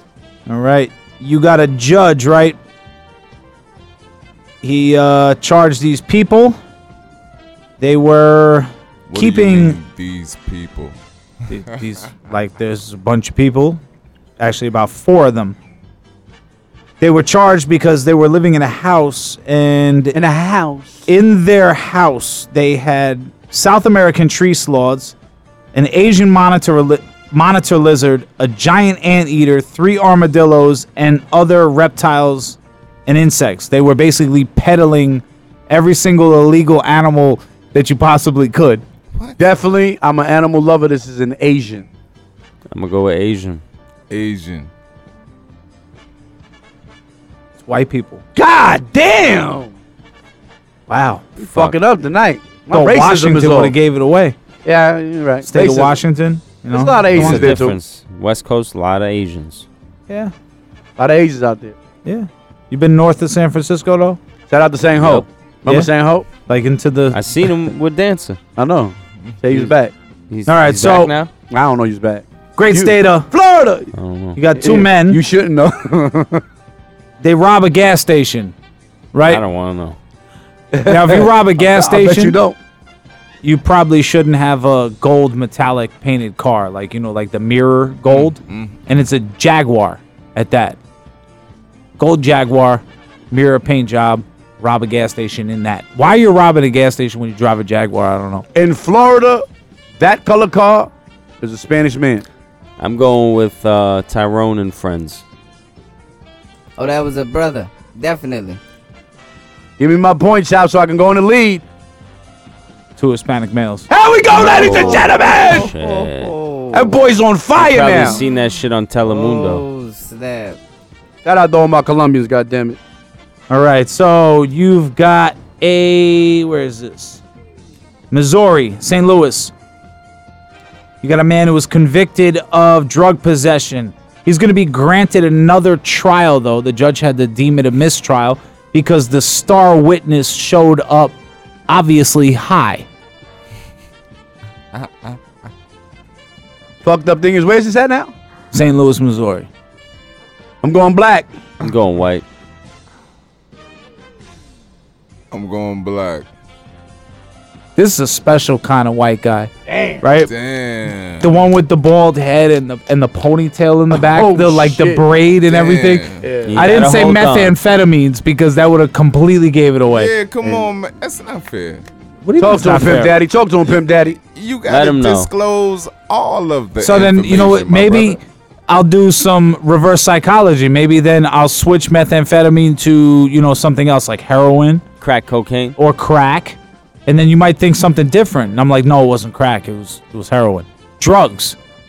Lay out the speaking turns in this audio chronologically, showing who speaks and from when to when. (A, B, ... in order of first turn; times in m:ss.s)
0:00.5-0:02.6 A
0:04.6-0:06.6 A
0:07.8-0:09.8 A
0:09.1-0:11.0 B
0:11.5-0:13.8 A
0:14.4-0:15.6 A
0:17.0-0:20.2 A
0:20.1-0:21.1 C
0:21.1-0:25.2 A
0:25.7-0:38.8 A
0:39.1-0:39.4 B
0:39.4-0:41.9 C
0:42.7-0:43.6 D
0:44.1-0:44.7 B
0:47.6-0:48.2 A
0:48.4-0:49.7 C
0:50.9-0:51.3 A
0:51.4-0:51.8 D
0:51.4-0:53.8 C
0:52.7-0:54.4 A
0:54.6-0:56.0 C
0:55.4-0:57.6 A
0:56.7-0:57.8 C
0:57.1-0:59.7 D
1:01.0-1:01.8 C
1:02.0-1:04.2 A
1:04.5-1:06.3 C
1:05.0-1:05.3 D
1:06.5-1:07.2 A
1:07.1-1:08.4 D
1:08.6-1:09.9 C
1:10.3-1:11.3 D
1:10.5-1:11.1 A
1:10.9-1:13.9 C
1:12.6-1:13.3 A
1:13.9-1:14.4 D
1:14.4-1:15.2 A
1:14.6-1:16.4 C
1:17.2-1:18.5 A
1:19.1-1:19.4 A
1:19.3-1:20.0 D
1:20.7-1:22.6 C
1:20.8-1:22.4 A
1:23.4-1:30.8 A
1:28.1-1:28.8 B
1:32.0-1:38.5 A
1:38.6-1:39.4 C
1:40.0-1:42.2 C
1:42.8-1:45.2 D
1:46.8-1:48.6 E
1:49.8-1:51.6 C
1:53.0-1:53.9 A
1:53.9-1:55.7 C
1:54.3-1:56.4 D
1:54.4-1:57.0 E
1:56.7-1:58.2 C
1:57.6-1:59.6 D
1:58.0-1:58.5 E
1:59.1-2:00.6 E
2:01.2-2:02.8 C
2:03.5-2:07.2 A
2:08.1-2:09.5 A
2:11.0-2:21.2 A
2:21.7-2:22.9 A
2:24.7-2:25.2 B
2:26.8-2:28.1 C
2:28.5-2:29.5 A
2:30.6-2:31.3 C
2:31.6-2:32.2 D
2:35.3-2:36.3 B
2:37.8-2:39.5 A
2:39.7-2:40.0 C
2:40.0-2:40.3 A
2:40.2-2:41.3 B
2:41.2-2:50.1 A
2:43.9-2:45.0 C
2:45.5-2:46.2 B
2:46.2-2:46.7 C
2:46.5-2:47.6 D
2:49.9-2:51.8 B
2:52.2-2:53.2 A
2:52.4-2:54.2 C
2:53.9-2:58.2 B
2:54.7-2:55.3 D
2:56.8-3:04.8 A
3:05.0-3:05.8 D
3:05.8-3:11.6 A